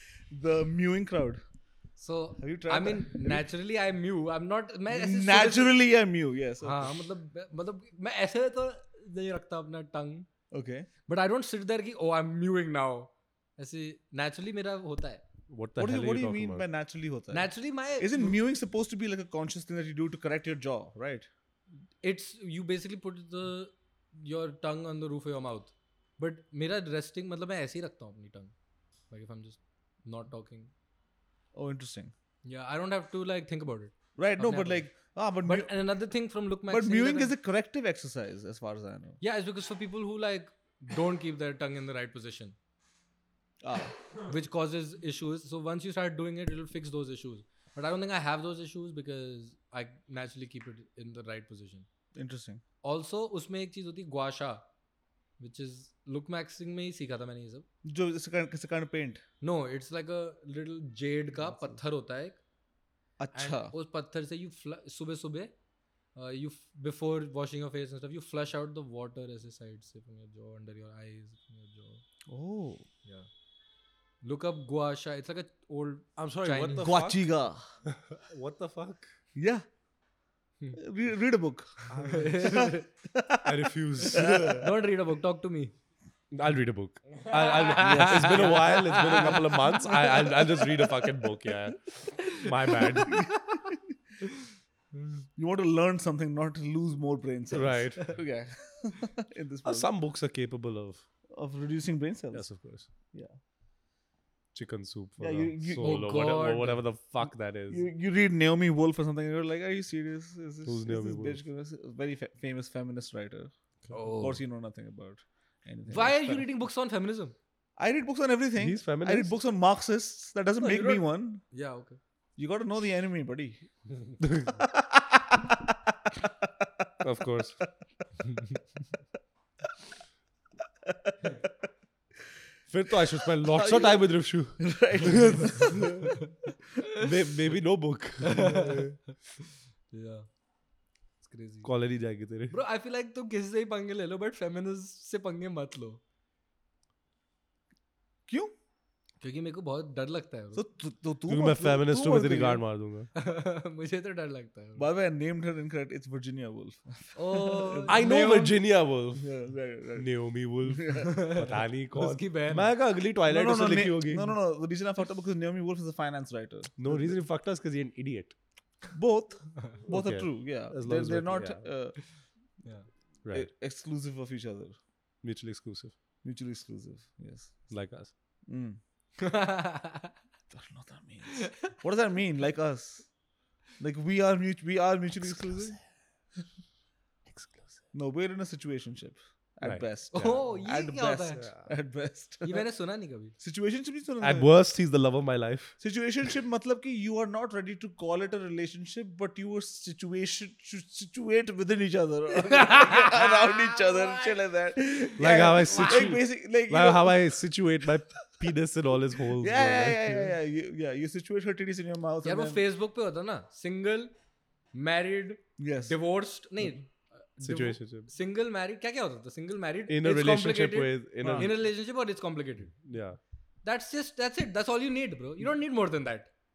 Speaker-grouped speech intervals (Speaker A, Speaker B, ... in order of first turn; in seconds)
Speaker A: 0.3-1.4, 2.4-3.4, 4.9-6.9, 10.5-10.9, 15.8-21.3, 31.5-32.1, 34.2-35.7, 36.7-39.2, 43.6-44.0, 52.1-52.6, 57.8-59.2, 61.5-61.8, 63.2-63.7, 72.3-72.8, 76.8-77.6, 79.3-79.6, 80.7-81.9, 82.4-84.7, 87.8-88.6, 93.0-93.9, 95.3-99.9, 101.3-102.5, 105.2-106.0, 107.7-113.5, 114.2-116.4, 117.8-121.4, 122.4-123.6, 124.5-126.9, 130.8-131.5, 133.2-136.2, 148.3-148.6, 150.5-152.6, 154.8-158.0, 159.2-160.1, 160.7-161.1, 163.3-167.2, 168.9-172.0, 173.3-174.8, 176.2-177.5, 178.5-178.8, 180.5-183.1, 183.8-185.8, 187.9-192.7, 193.4-194.5, 195.8-207.4, 209.3-212.6, 215.6-215.9, 221.2-221.5
Speaker B: 2.0-5.7, 6.6-10.3, 11.1-15.2, 17.3-18.4, 22.0-28.5, 29.1-30.7, 32.4-34.9, 35.4-37.3, 39.2-42.5, 44.3-51.9, 52.8-54.6, 55.4-57.6, 59.4-62.4, 63.3-65.5, 66.1-72.0, 74.2-76.9, 82.0-82.8, 84.6-85.7, 87.3-90.6, 92.4-93.6, 105.8-106.8, 113.9-114.4, 115.9-117.3, 120.6-122.0, 138.2-139.1, 139.9-140.3, 141.2-141.7, 142.5-146.0, 149.2-150.6, 153.1-154.8, 157.2-158.6, 161.0-162.7, 172.6-172.9, 179.2-180.1, 181.3-181.7, 190.1-191.5, 192.4-193.3, 202.4-204.4, 205.7-206.1, 212.2-214.1, 214.7-222.8, 223.6-226.3
Speaker C: 15.5-16.6, 76.2-77.3, 77.8-79.1, 81.9-82.7, 83.4-84.7, 86.3-93.3, 97.5-98.2, 99.6-101.0, 102.3-102.9, 104.5-107.8, 110.6-111.4, 118.6-119.3, 124.2-124.5, 127.0-127.6, 132.7-135.8, 136.9-139.0, 141.6-142.6, 151.3-153.1, 157.9-159.3, 160.0-164.3, 166.8-168.4, 169.8-171.6, 175.2-175.9, 177.7-178.1, 185.2-185.8, 187.3-187.8, 189.6-190.4, 194.2-195.8, 205.2-210.3, 217.4-218.1, 219.9-221.6, 222.8-223.2